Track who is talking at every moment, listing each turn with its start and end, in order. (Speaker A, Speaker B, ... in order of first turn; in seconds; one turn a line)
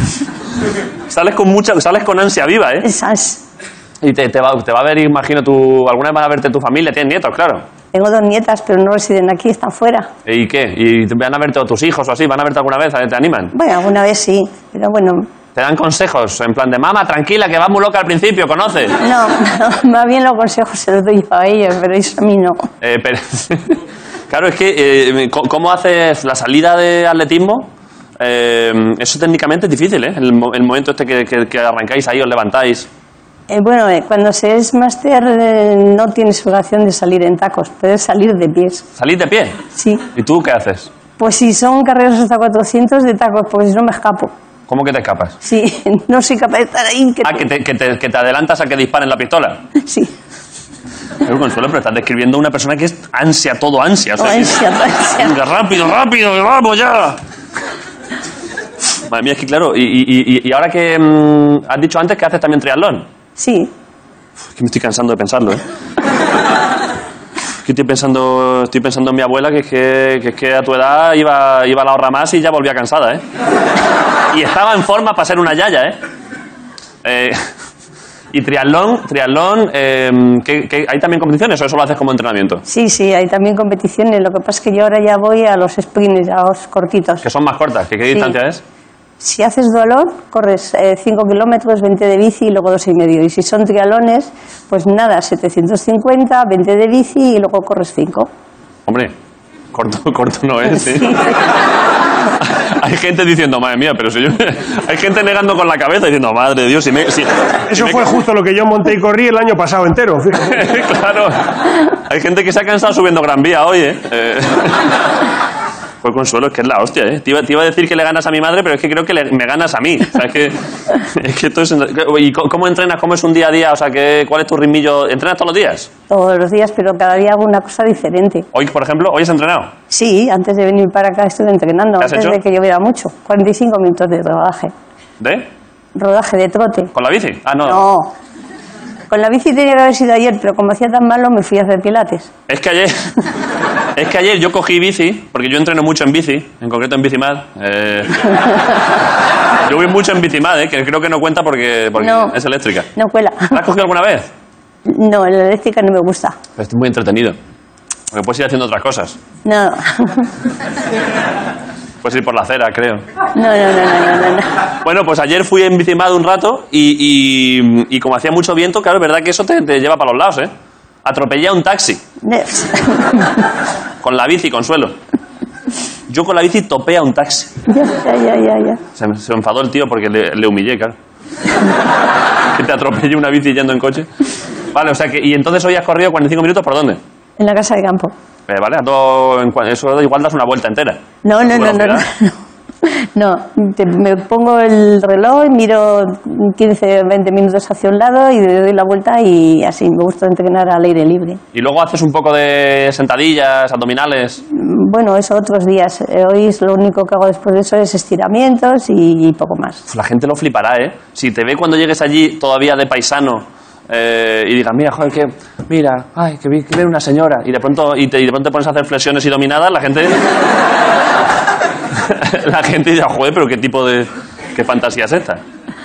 Speaker A: 1.1-2.9
Speaker B: 2.8-3.4
Speaker A: 4.0-7.6
Speaker B: 7.9-10.1
Speaker A: 10.2-13.5
Speaker B: 13.5-15.3
Speaker A: 15.5-19.0
Speaker B: 19.0-22.7
Speaker A: 22.8-32.9
Speaker B: 33.5-38.8
Speaker A: 39.0-39.6
Speaker B: 39.7-40.0
Speaker A: 40.1-40.9
Speaker B: 41.2-44.3
Speaker A: 44.7-45.4
Speaker B: 45.4-47.5
Speaker A: 47.2-49.6
Speaker B: 49.8-50.1
Speaker A: 51.2-54.6
Speaker B: 54.2-55.3
Speaker A: 55.2-57.2
Speaker A: 59.1-63.0
Speaker B: 63.4-63.7
Speaker A: 64.5-65.6
Speaker A: 67.6-73.2
Speaker A: 74.3-76.0
Speaker A: 77.0-77.4
Speaker A: 78.3-82.6
Speaker B: 82.7-87.2
Speaker A: 87.2-88.6
Speaker B: 89.2-98.3
Speaker A: 98.9-99.1
Speaker A: 99.7-101.2
Speaker B: 100.8-101.4
Speaker A: 102.4-108.1
Speaker C: 107.7-110.6
Speaker A: 110.5-114.9
Speaker A: 116.0-125.9
Speaker B: 126.1-128.4
Speaker A: 128.5-129.7
Speaker B: 129.9-134.7
Speaker A: 132.0-132.4
Speaker A: 135.2-135.4
Speaker B: 135.9-136.9
Speaker A: 136.9-137.8
Speaker B: 137.6-138.1
Speaker B: 139.1-142.3
Speaker A: 142.5-143.2
Speaker A: 143.9-148.4
Speaker A: 149.6-152.9
Speaker B: 152.0-152.4
Speaker B: 152.9-153.6
Speaker A: 153.5-154.3
Speaker B: 154.8-156.4
Speaker A: 156.6-157.4
Speaker A: 158.1-159.2
Speaker B: 159.4-160.3
Speaker A: 162.0-163.0
Speaker B: 163.3-164.5
Speaker A: 164.8-170.5
Speaker A: 171.0-172.0
Speaker B: 172.2-173.4
Speaker A: 174.0-174.9
Speaker A: 176.1-177.5
Speaker B: 177.7-178.8
Speaker A: 178.9-180.9
Speaker A: 182.5-184.1
Speaker A: 184.7-187.0
Speaker B: 187.4-188.1
Speaker A: 188.5-192.0
Speaker B: 191.2-201.4
Speaker A: 201.5-204.4
Speaker B: 204.5-209.8
Speaker A: 209.9-220.2
Speaker A: 221.9-225.4